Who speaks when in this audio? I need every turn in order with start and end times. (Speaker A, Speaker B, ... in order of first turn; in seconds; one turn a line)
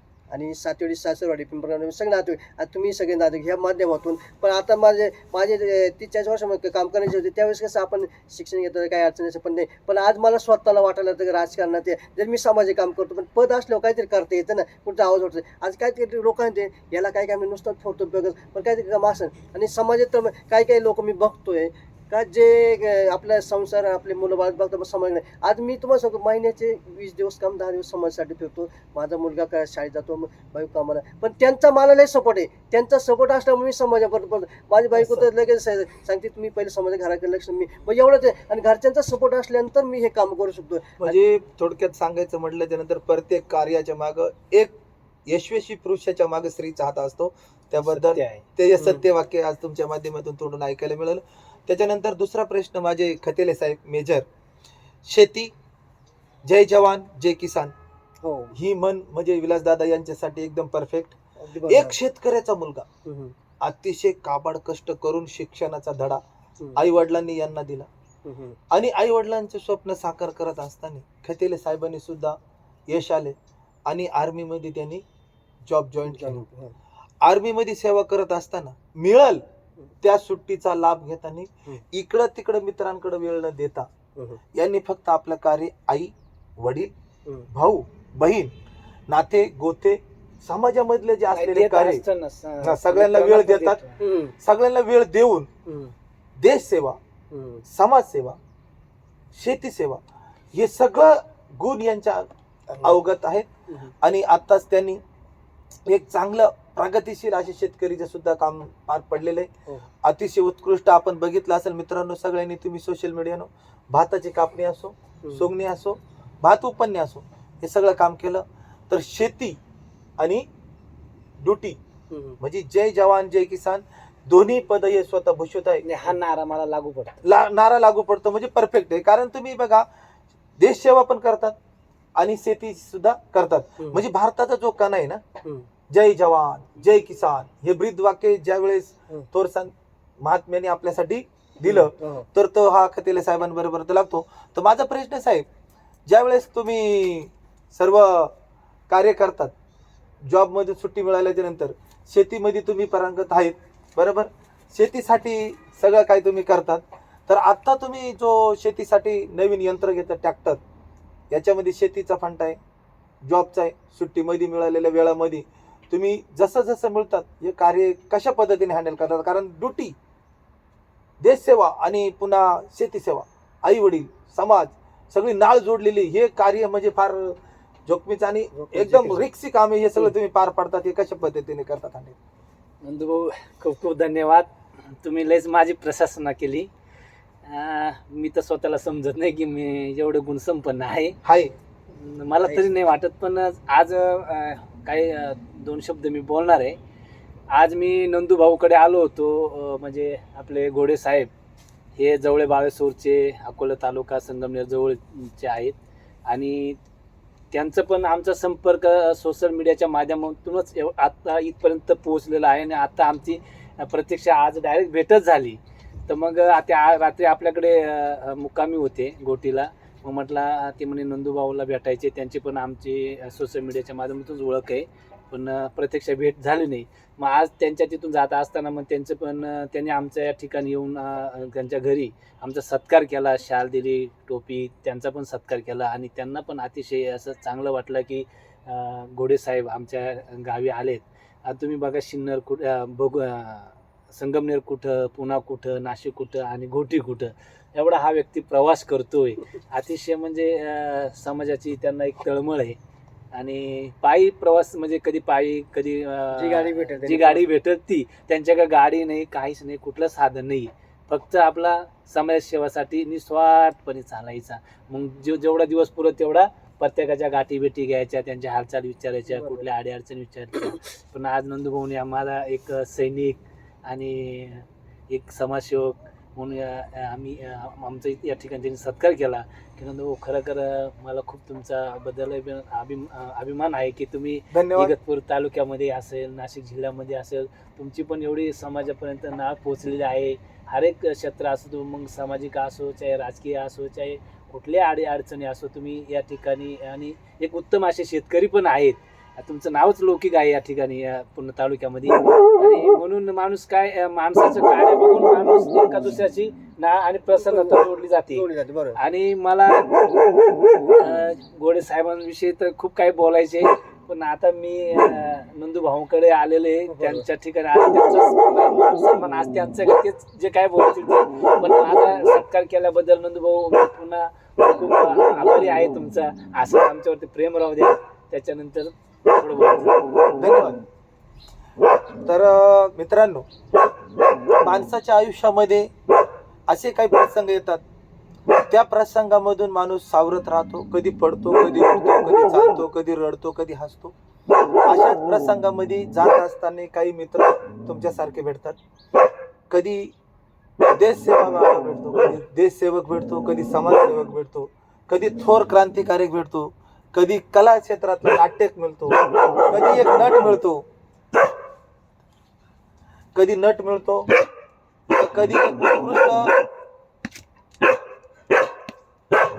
Speaker A: 0.3-41.2
Speaker B: 35.0-35.2
Speaker B: 41.0-44.8
Speaker B: 45.3-54.2
Speaker C: 47.8-48.4
Speaker B: 55.0-55.5
Speaker B: 56.4-57.7
Speaker A: 58.2-58.5
Speaker B: 58.5-62.9
Speaker A: 61.4-62.0
Speaker A: 63.0-63.3
Speaker B: 63.6-66.2
Speaker B: 66.8-67.9
Speaker A: 68.2-68.6
Speaker B: 68.7-72.4
Speaker B: 72.9-75.0
Speaker B: 75.6-76.4
Speaker A: 76.1-76.7
Speaker B: 77.2-79.4
Speaker B: 80.0-83.9
Speaker B: 84.5-86.9
Speaker B: 87.5-88.5
Speaker B: 89.1-92.0
Speaker C: 91.3-94.0
Speaker B: 92.6-93.8
Speaker A: 94.0-94.3
Speaker B: 94.4-95.5
Speaker A: 95.7-95.9
Speaker B: 96.4-97.0
Speaker A: 97.3-97.6
Speaker B: 97.7-98.4
Speaker B: 99.3-100.0
Speaker B: 100.5-103.5
Speaker B: 104.0-105.0
Speaker B: 105.8-109.5
Speaker B: 110.0-119.6
Speaker B: 120.2-120.5
Speaker B: 121.4-121.8
Speaker A: 122.1-122.4
Speaker B: 122.4-125.8
Speaker C: 125.8-127.2
Speaker B: 127.2-129.9
Speaker B: 130.6-131.5
Speaker B: 132.2-135.2
Speaker B: 135.9-145.5
Speaker A: 141.7-142.2
Speaker B: 146.1-148.3
Speaker B: 148.9-149.5
Speaker B: 150.2-160.6
Speaker B: 161.3-162.6
Speaker B: 163.2-169.9
Speaker B: 171.2-182.2
Speaker A: 178.5-179.3
Speaker C: 182.8-184.5
Speaker C: 185.0-186.7
Speaker C: 187.4-191.2
Speaker B: 191.2-191.5
Speaker C: 191.9-196.8
Speaker C: 197.5-201.3
Speaker C: 202.0-205.8
Speaker C: 206.3-206.8
Speaker C: 207.5-252.8
Speaker C: 253.3-310.0
Speaker A: 256.3-257.4
Speaker A: 269.3-269.6
Speaker B: 284.5-284.9
Speaker A: 307.4-307.8
Speaker A: 308.3-309.0
Speaker C: 310.9-330.0
Speaker A: 316.9-317.2
Speaker B: 330.4-330.8
Speaker B: 332.2-333.5
Speaker B: 334.6-335.9
Speaker B: 336.7-337.8
Speaker B: 338.7-344.1
Speaker B: 344.8-348.8
Speaker B: 349.7-350.1
Speaker B: 350.9-360.8
Speaker B: 363.3-364.3
Speaker B: 365.1-366.5